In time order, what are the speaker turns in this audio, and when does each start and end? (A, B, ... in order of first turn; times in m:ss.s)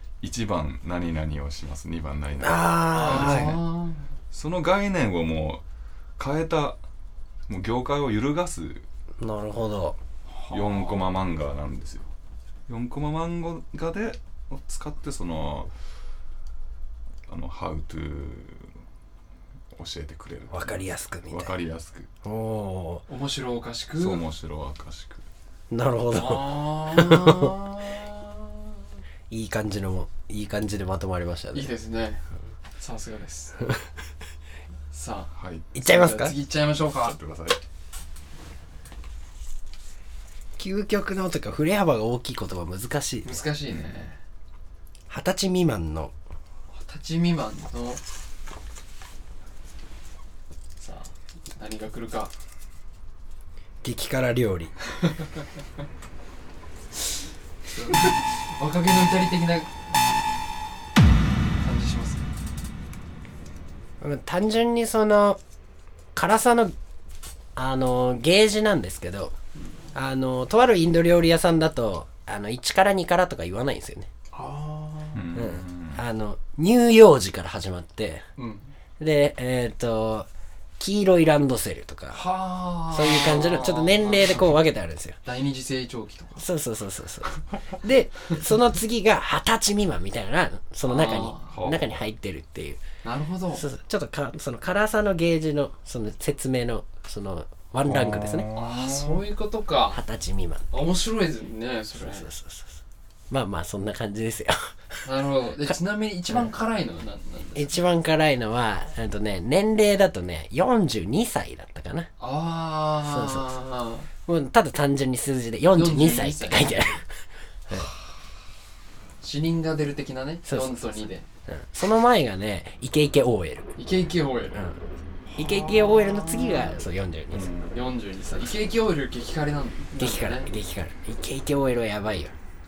0:00.2-0:03.6 A
0:02.4-0:03.6 B
0:02.9-0:04.1 C
0:04.3-0:05.6 A
0:06.2-0:06.8 A
0:07.5-0:08.8 A
0:09.2-0:10.0 B
0:10.3-0:11.0 C
0:10.5-0:12.1 A
0:12.7-0:15.7 A
0:17.3-0:18.7 A
0:19.7-0:22.1 A
0:20.5-0:21.5 B
0:22.2-0:23.0 B
0:23.1-0:24.2 C
0:24.0-0:25.2 A
0:25.7-0:27.5 B
0:26.1-0:28.6 C
0:29.3-0:31.7 B
0:31.5-0:32.2 C
0:32.8-0:33.6 C
0:34.9-0:37.2 C
0:35.4-0:35.7 A
0:35.8-0:36.4 B
0:37.0-0:37.6 A
0:40.6-0:43.4 B
0:43.2-0:44.2 C
0:45.1-0:46.1 B
0:46.7-0:48.0 C
0:50.8-0:52.3 C
0:53.8-0:54.7 B
0:57.7-0:59.8 C
1:01.6-1:02.2 C
1:04.0-1:05.4 B
1:06.2-1:06.7 B
1:07.6-1:09.4 B
1:09.9-1:14.1 B
1:14.3-1:15.3 C
1:15.2-1:16.0 A
1:15.3-1:18.2 B
1:18.4-1:18.7 C
1:19.0-1:22.2 B
1:22.1-1:24.6 C
1:22.9-1:25.2 B
1:25.2-1:26.5 C
1:26.4-1:32.8 B
1:30.8-1:31.6 C
1:31.5-1:31.9 A
1:33.0-1:33.7 C
1:33.5-1:38.5 B
1:37.9-1:39.0 A
1:38.6-1:40.0 C
1:39.9-1:40.6 B
1:40.7-1:42.3 C
1:42.0-1:42.8 B
1:43.3-1:45.0 B
1:45.0-1:47.8 C
1:47.6-1:52.1 B
1:52.2-1:54.1 C
1:53.0-1:53.5 B
1:54.2-1:57.2 B
1:55.7-1:56.8 C
1:59.2-2:01.2 C
2:00.4-2:03.7 B
2:03.8-2:04.6 C
2:04.6-2:04.8 B
2:05.3-2:06.8 C
2:05.4-2:07.5 B
2:07.3-2:07.7 A
2:07.7-2:10.5 C
2:10.0-2:12.4 B